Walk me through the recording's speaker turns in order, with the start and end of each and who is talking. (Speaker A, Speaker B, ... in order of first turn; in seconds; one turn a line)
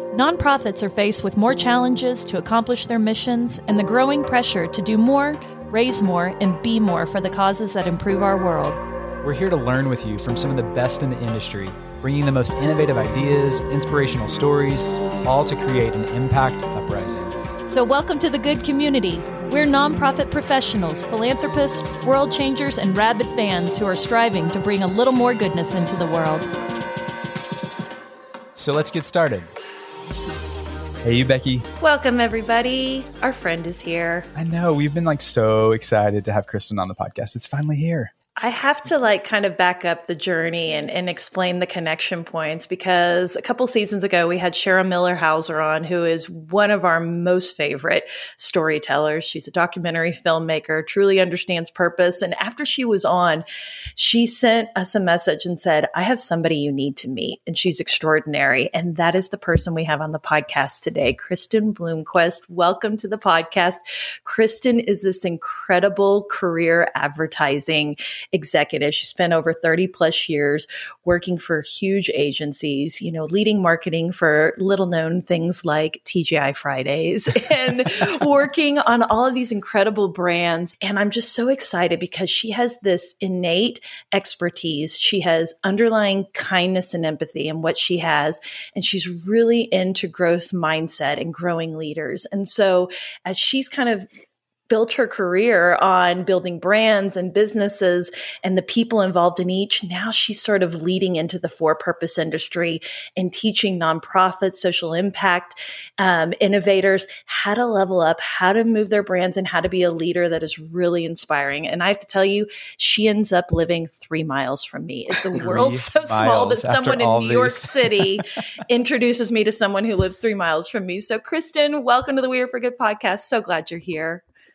Speaker A: 0.1-8.8
Speaker B: 9.2-17.4
Speaker A: 17.6-26.5
Speaker B: 28.6-29.5
Speaker B: 31.0-31.7
Speaker A: 31.8-34.3
Speaker B: 34.3-38.1
Speaker A: 38.4-53.4
Speaker A: 54.0-94.1
Speaker A: 94.7-124.2
Speaker B: 115.4-118.1